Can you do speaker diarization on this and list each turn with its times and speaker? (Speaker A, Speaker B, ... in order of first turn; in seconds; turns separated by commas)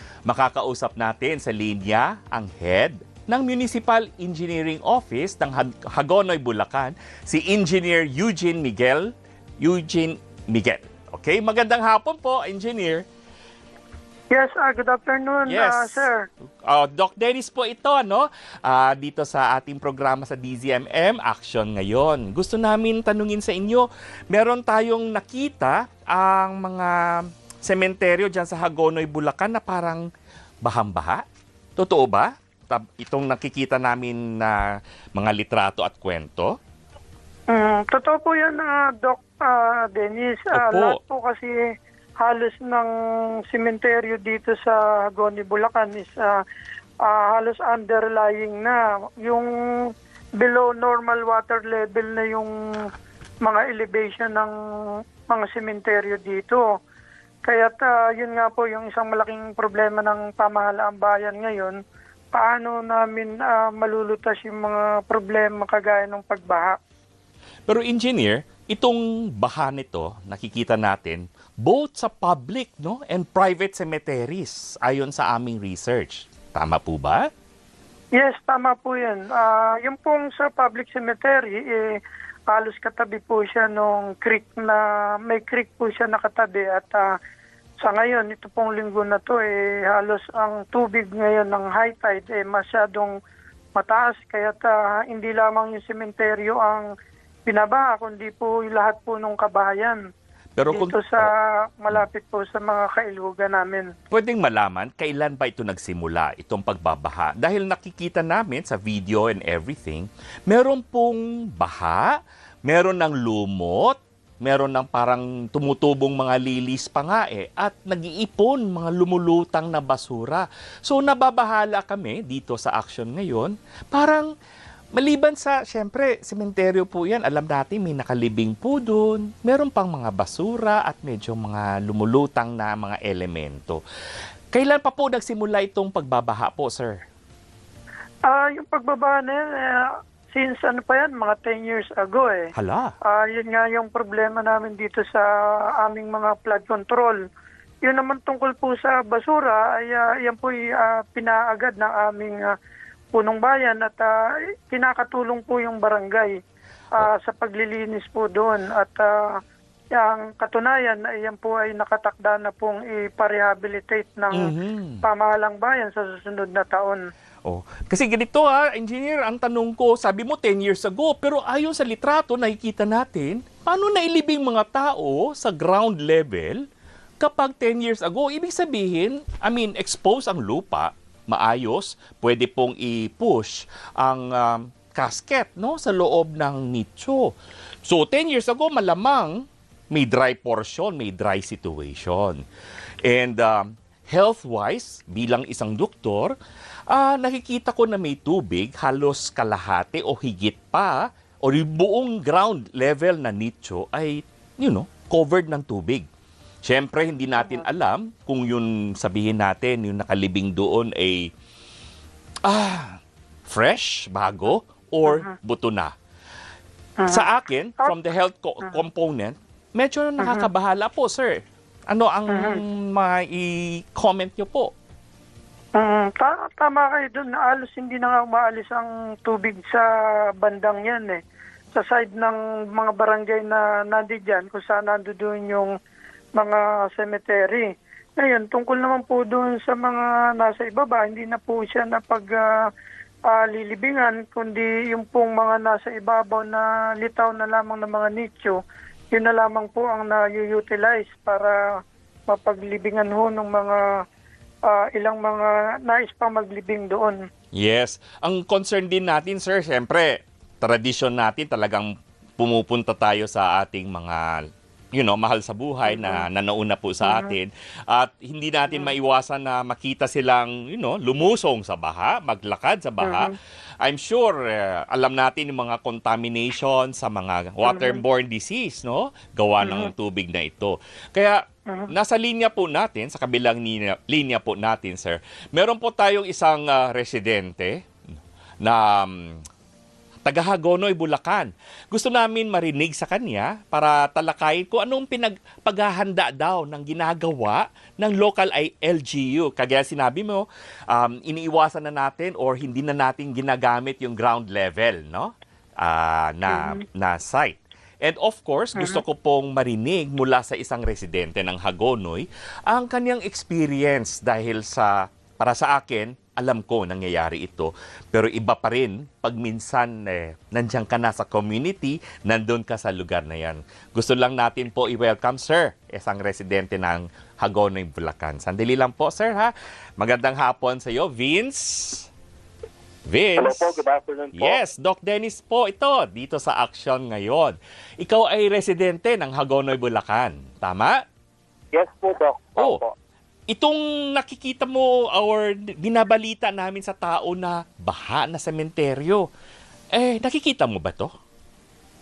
Speaker A: 0.3-9.1, Speaker A: 9.6-13.0, Speaker B: 14.3-16.2, Speaker A: 15.5-16.1, Speaker A: 16.6-30.0, Speaker A: 30.6-31.2, Speaker A: 31.8-34.6, Speaker A: 35.2-36.5, Speaker B: 37.5-41.5, Speaker A: 40.5-41.0, Speaker B: 42.2-42.9, Speaker B: 43.5-46.3, Speaker B: 47.1-49.5, Speaker B: 50.4-52.5, Speaker B: 53.5-54.5, Speaker B: 55.3-56.6, Speaker B: 57.5-61.8, Speaker B: 62.3-66.8, Speaker A: 67.7-77.3, Speaker B: 78.2-81.9, Speaker B: 82.5-87.0, Speaker B: 87.8-93.1, Speaker B: 93.8-96.9, Speaker B: 97.5-100.0, Speaker A: 100.6-101.3, Speaker B: 100.7-103.9, Speaker A: 104.1-112.1, Speaker A: 112.7-124.3, Speaker A: 125.0-133.8, Speaker A: 134.5-137.0, Speaker B: 138.3-142.5, Speaker A: 142.6-142.9, Speaker B: 143.1-145.2, Speaker B: 145.8-147.2, Speaker B: 147.8-152.4, Speaker B: 153.1-154.1, Speaker B: 154.7-156.3, Speaker B: 156.9-159.2, Speaker B: 159.9-167.0, Speaker A: 164.3-165.0, Speaker A: 167.4-176.6, Speaker A: 177.2-187.3, Speaker A: 187.8-192.4, Speaker A: 193.0-196.3, Speaker A: 196.9-206.1, Speaker A: 206.6-211.3, Speaker A: 212.4-215.9, Speaker B: 215.1-215.3, Speaker B: 217.0-217.3, Speaker A: 217.1-224.7, Speaker B: 220.2-220.5, Speaker B: 222.3-222.6, Speaker B: 225.8-229.8, Speaker B: 230.4-231.2, Speaker B: 231.7-235.7, Speaker B: 236.4-242.4, Speaker B: 243.3-248.6, Speaker B: 249.1-251.6, Speaker B: 252.3-253.8, Speaker B: 254.7-257.2, Speaker A: 257.6-264.4, Speaker A: 264.9-287.8, Speaker B: 265.9-266.2, Speaker B: 267.0-267.4, Speaker B: 273.0-273.3, Speaker B: 277.6-278.0, Speaker B: 279.6-279.9, Speaker A: 288.6-289.4, Speaker A: 290.2-332.1, Speaker B: 306.5-306.8, Speaker B: 308.8-309.0, Speaker A: 333.1-333.8, Speaker C: 333.4-334.6, Speaker A: 334.4-341.0, Speaker C: 341.7-342.9, Speaker A: 343.5-349.2, Speaker A: 349.9-351.1